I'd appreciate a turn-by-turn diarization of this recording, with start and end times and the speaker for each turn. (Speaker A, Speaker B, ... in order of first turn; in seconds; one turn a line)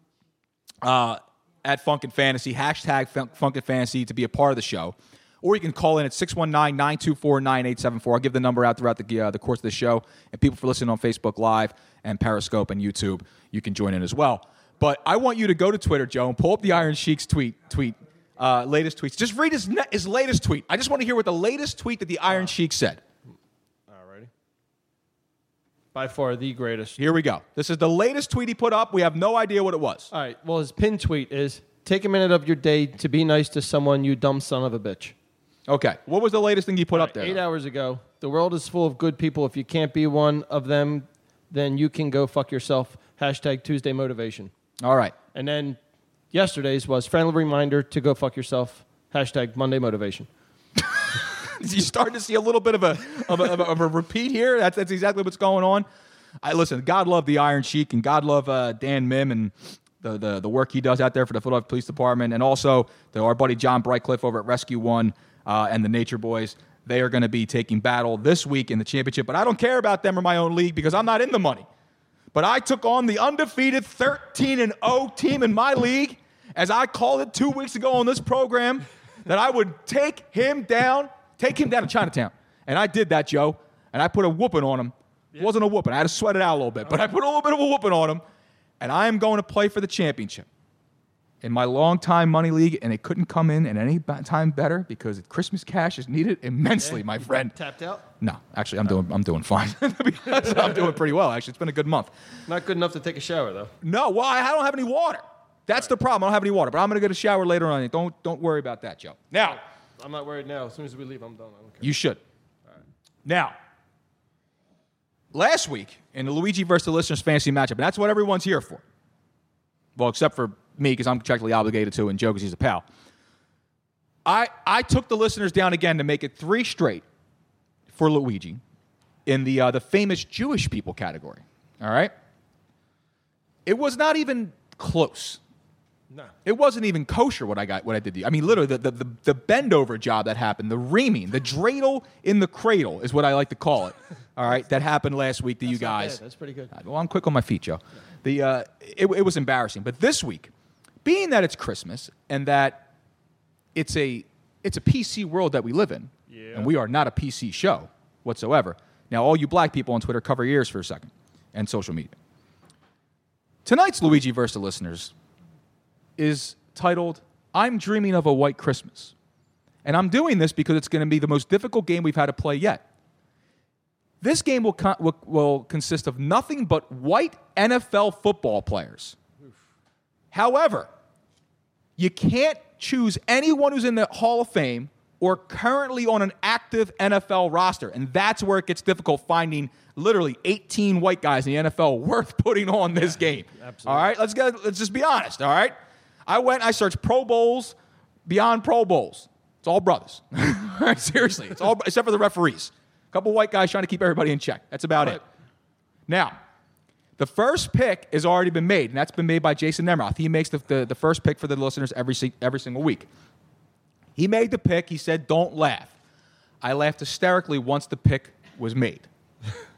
Speaker A: 0.8-23.0
Speaker B: 23.9-24.3
Speaker B: 25.9-27.0
Speaker A: 27.0-30.1
Speaker B: 30.1-35.1
Speaker A: 35.7-37.4
Speaker B: 36.9-44.5
Speaker A: 44.8-45.1
Speaker B: 45.3-45.8
Speaker B: 46.3-50.3
Speaker A: 51.2-55.9
Speaker A: 56.4-71.7
Speaker A: 72.3-88.2
Speaker A: 88.8-90.5
Speaker A: 91.4-97.5
Speaker B: 96.8-98.0
Speaker A: 98.2-102.1
Speaker B: 102.5-103.7
Speaker A: 103.8-109.6
Speaker B: 109.4-111.9
Speaker A: 111.8-112.2
Speaker A: 113.2-113.5
Speaker A: 115.3-118.8
Speaker A: 120.0-122.8
Speaker A: 124.2-127.0
Speaker A: 127.9-128.6
Speaker A: 129.2-132.1
Speaker A: 133.7-135.4
Speaker B: 136.1-136.3
Speaker A: 136.4-146.2
Speaker B: 145.6-146.7
Speaker A: 146.7-150.5
Speaker A: 151.0-152.9
Speaker A: 153.7-162.1
Speaker B: 156.3-156.7
Speaker A: 163.6-165.1
Speaker A: 166.2-169.1
Speaker A: 169.8-172.8
Speaker A: 174.2-179.2
Speaker A: 180.3-180.9
Speaker A: 182.0-205.2
Speaker B: 193.0-194.1
Speaker A: 206.1-206.4
Speaker A: 207.2-213.1
Speaker A: 214.2-215.9
Speaker A: 216.6-219.1